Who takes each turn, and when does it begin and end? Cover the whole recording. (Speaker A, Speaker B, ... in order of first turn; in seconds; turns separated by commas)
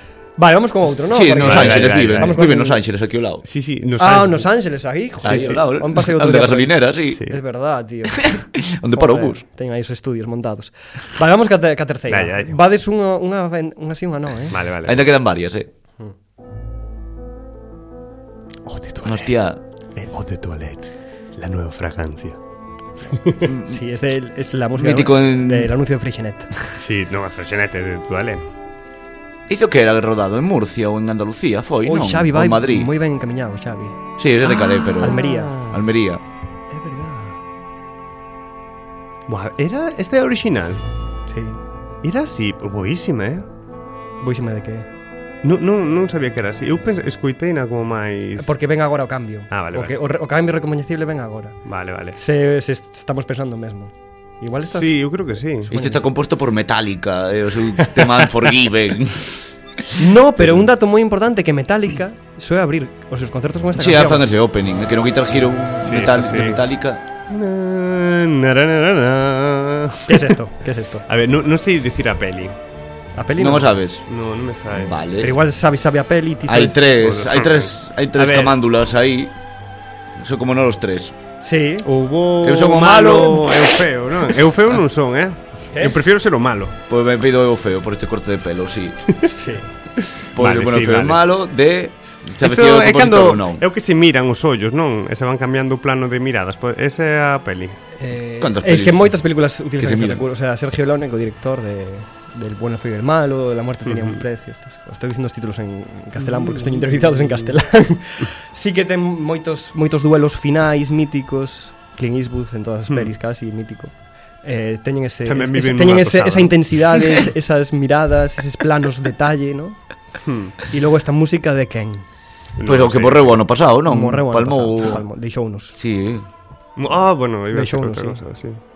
Speaker A: 0.4-2.8, Speaker B: 1.1-3.5, Speaker C: 1.4-2.5, Speaker C: 3.5-4.5, Speaker A: 4.0-14.6, Speaker C: 5.2-5.6, Speaker B: 5.2-7.2, Speaker C: 7.1-7.4, Speaker B: 8.2-9.4, Speaker C: 12.1-12.6, Speaker C: 14.5-15.1, Speaker B: 14.8-15.7, Speaker C: 18.7-19.3, Speaker B: 19.0-19.6, Speaker C: 20.0-22.4, Speaker C: 23.1-23.5, Speaker B: 23.4-23.8, Speaker A: 23.6-26.5, Speaker B: 24.8-25.7, Speaker C: 26.8-28.4, Speaker B: 29.5-32.9, Speaker A: 31.9-34.0, Speaker B: 34.2-36.2, Speaker A: 35.0-35.6, Speaker C: 35.0-35.8, Speaker A: 36.7-37.4, Speaker C: 39.3-40.9, Speaker A: 41.3-41.6, Speaker C: 42.0-43.5, Speaker A: 44.2-44.9, Speaker C: 45.4-48.5, Speaker A: 48.4-51.6, Speaker C: 49.5-50.0, Speaker C: 51.6-52.2, Speaker A: 52.1-55.0, Speaker C: 54.6-55.7, Speaker A: 55.7-56.0, Speaker B: 55.7-60.0, Speaker C: 57.8-58.3, Speaker A: 60.0-64.2, Speaker B: 63.7-67.0, Speaker C: 65.8-66.6, Speaker C: 67.3-70.4, Speaker A: 70.1-71.1, Speaker C: 71.1-72.6, Speaker A: 73.2-73.7, Speaker B: 73.4-74.0, Speaker C: 74.1-75.0, Speaker B: 74.7-75.4, Speaker A: 75.2-76.8, Speaker B: 76.5-79.3, Speaker C: 77.0-78.6, Speaker B: 80.2-81.2, Speaker A: 81.4-81.9, Speaker C: 81.8-86.8, Speaker B: 82.4-83.6, Speaker B: 86.9-89.1, Speaker A: 89.3-89.7, Speaker C: 90.0-91.2, Speaker B: 90.3-93.6, Speaker C: 92.4-97.8, Speaker A: 98.0-119.8, Speaker B: 98.4-99.1, Speaker B: 99.8-100.2, Speaker C: 103.9-104.2, Speaker C: 106.2-107.5, Speaker C: 115.3-117.2, Speaker C: 120.2-120.6, Speaker A: 120.7-122.0, Speaker C: 122.6-123.4, Speaker B: 122.6-125.0, Speaker A: 123.9-125.8, Speaker B: 125.8-126.2, Speaker C: 126.8-128.6, Speaker A: 127.5-128.2